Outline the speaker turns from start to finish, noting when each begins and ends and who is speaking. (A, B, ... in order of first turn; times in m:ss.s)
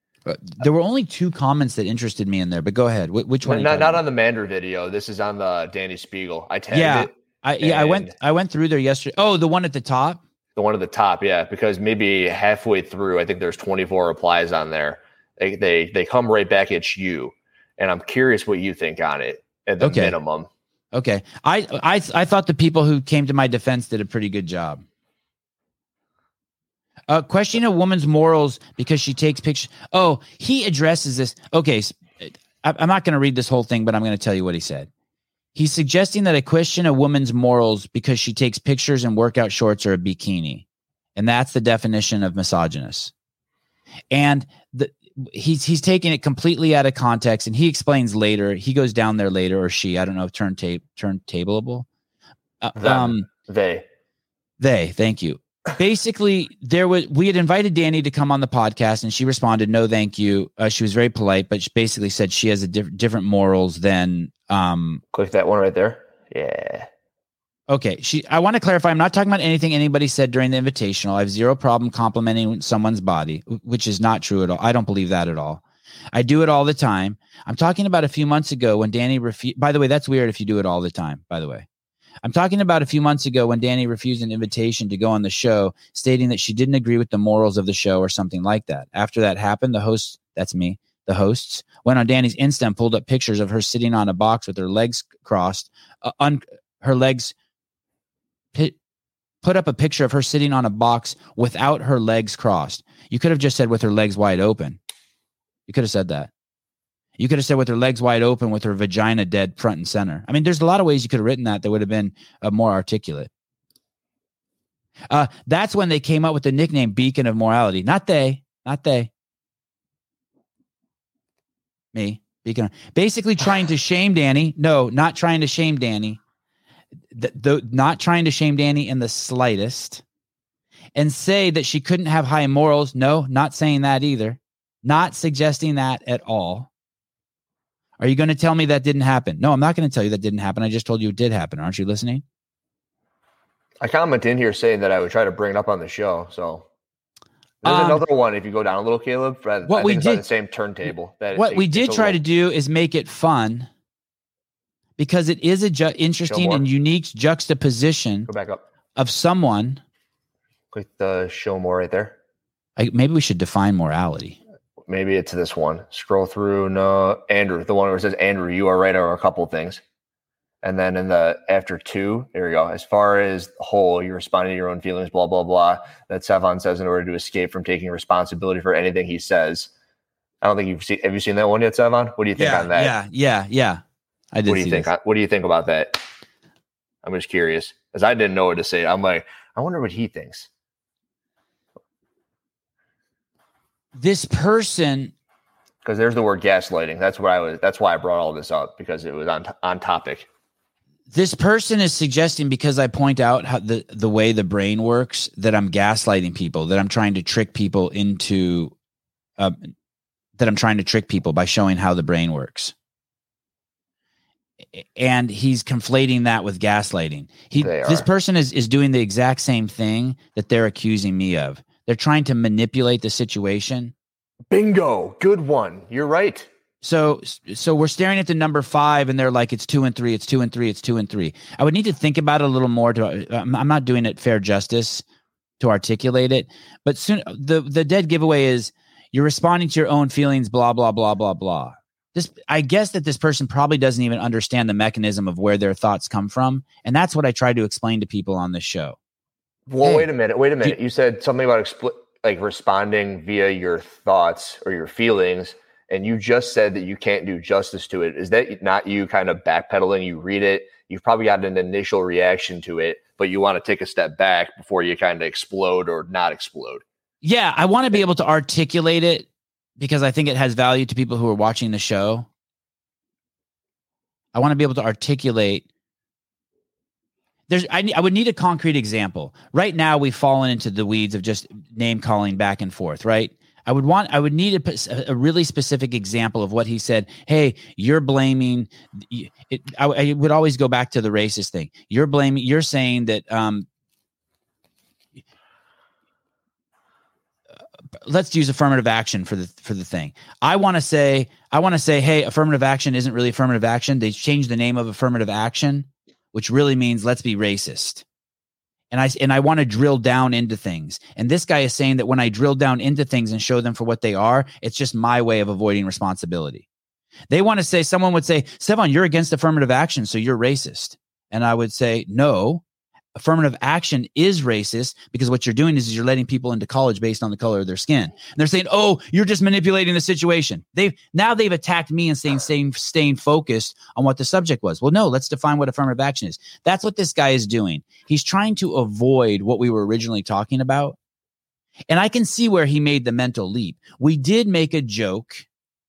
0:00.3-0:04.0 A
0:03.4-0:08.1 B
0:06.7-0:10.2 A
0:10.6-0:20.5 B
0:19.8-0:20.2 A
0:20.9-0:24.8 A
0:27.1-0:34.9 A
0:35.6-0:40.6 A
0:41.2-0:43.1 A
0:44.1-0:51.9 A
0:52.6-0:53.3 A
0:52.8-0:53.8 B
0:54.6-1:05.0 A
1:05.1-1:06.9 B
1:07.7-1:15.6 A
1:16.1-1:21.7 A
1:22.2-1:37.3 A
1:39.4-1:44.8 A
1:45.7-1:46.3 A
1:47.2-1:53.3 A
1:55.1-1:59.1 A
2:01.9-2:06.2 A
2:07.1-2:10.0 A
2:11.0-2:16.7 A
2:18.0-2:22.2 A
2:23.8-2:26.7 B
2:27.6-2:32.2 B
2:27.6-2:28.0 A
2:29.7-2:30.2 A
2:31.3-2:33.7 A
2:35.0-2:38.3 A
2:36.3-2:36.6 B
2:38.3-2:38.6 B
2:39.0-2:39.8 A
2:40.7-2:42.2 B
2:42.8-2:44.4 A
2:44.9-2:49.8 B
2:50.6-2:59.7 B
3:00.4-3:02.9 B
3:02.4-3:04.9 A
3:04.5-3:06.0 B
3:07.0-3:10.5 B
3:14.0-3:15.1 A
3:15.8-3:20.3 B
3:21.1-3:28.7 A
3:29.4-3:29.7 A
3:30.4-3:32.7 A
3:34.7-3:43.9 A
3:37.6-3:38.1 B
3:44.5-3:46.5 B
3:46.8-3:55.0 A
3:55.6-4:09.0 A
4:09.7-4:26.8 B
4:09.8-4:10.1 A
4:27.2-4:29.3 A
4:29.8-4:32.3 A
4:34.3-4:35.6 A
4:37.5-4:53.7 A
4:58.0-5:08.0 A
5:08.9-5:16.6 A
5:17.3-5:22.6 A
5:23.2-5:41.0 A
5:41.9-5:45.4 A